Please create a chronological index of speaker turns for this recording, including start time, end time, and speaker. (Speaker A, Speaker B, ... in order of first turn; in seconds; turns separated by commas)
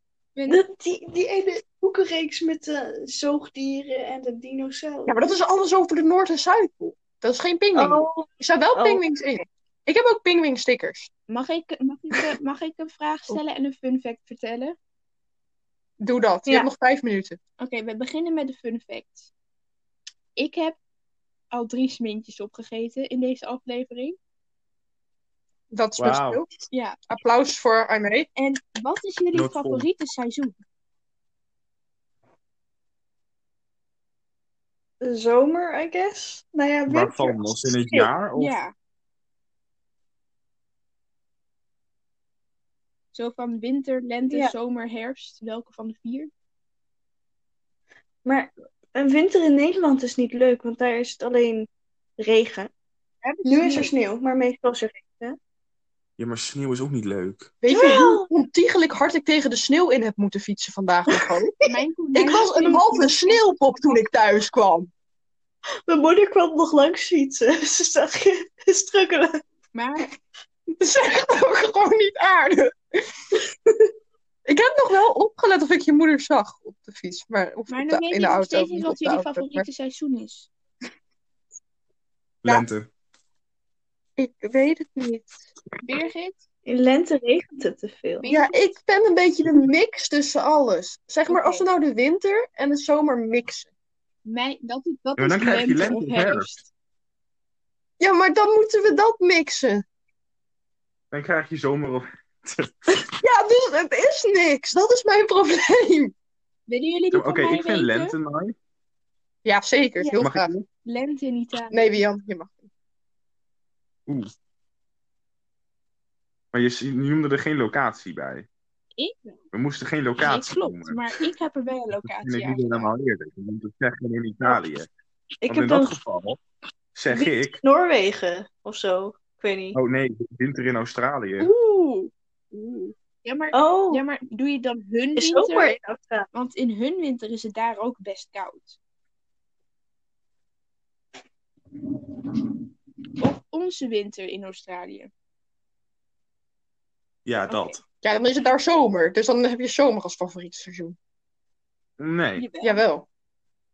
Speaker A: 0.3-0.6, Speaker B: 0.5-5.1, Speaker C: 5.1-11.1, Speaker B: 7.7-9.0, Speaker A: 11.3-14.8, Speaker C: 16.0-17.4, Speaker A: 17.6-19.3, Speaker A: 20.4-20.8, Speaker A: 21.5-24.2, Speaker C: 25.7-26.5, Speaker D: 26.0-26.4, Speaker A: 26.7-27.0, Speaker C: 27.1-28.3, Speaker A: 28.4-30.5, Speaker D: 29.3-29.9, Speaker B: 35.0-38.1, Speaker D: 36.9-38.6, Speaker A: 38.4-38.7, Speaker A: 43.1-46.3, Speaker B: 48.2-52.7, Speaker A: 53.2-53.9, Speaker B: 53.4-55.4, Speaker D: 56.2-57.5, Speaker C: 57.6-61.5, Speaker B: 57.7-58.3, Speaker B: 61.1-61.7, Speaker A: 61.6-63.4, Speaker C: 62.1-64.9, Speaker B: 65.9-69.4, Speaker A: 69.7-70.1, Speaker C: 70.7-72.7, Speaker C: 74.5-79.7, Speaker A: 77.7-80.5, Speaker D: 82.4-82.9, Speaker C: 84.2-85.5, Speaker A: 85.8-86.4, Speaker B: 86.6-88.3, Speaker A: 88.2-88.6, Speaker C: 88.2-93.7, Speaker A: 91.3-91.7, Speaker A: 94.2-96.7, Speaker D: 95.2-96.5, Speaker C: 98.0-99.8, Speaker D: 101.1-103.0, Speaker C: 103.2-106.1, Speaker A: 106.7-108.2, Speaker D: 107.1-108.5, Speaker C: 109.4-110.5, Speaker D: 110.2-110.7, Speaker A: 110.8-112.0, Speaker C: 111.7-112.7, Speaker D: 116.5-118.5, Speaker A: 119.0-119.4, Speaker D: 119.5-121.2, Speaker A: 120.2-122.9, Speaker D: 122.0-124.9, Speaker B: 125.4-126.0, Speaker D: 125.5-126.4, Speaker D: 126.9-127.6, Speaker B: 127.1-129.8, Speaker D: 129.7-131.5, Speaker A: 131.4-135.8, Speaker B: 133.5-134.0, Speaker B: 135.2-136.3, Speaker A: 136.3-138.8, Speaker A: 143.2-145.1, Speaker D: 147.2-147.8, Speaker C: 148.0-150.9, Speaker D: 152.0-152.4, Speaker A: 152.4-152.8, Speaker C: 152.6-153.1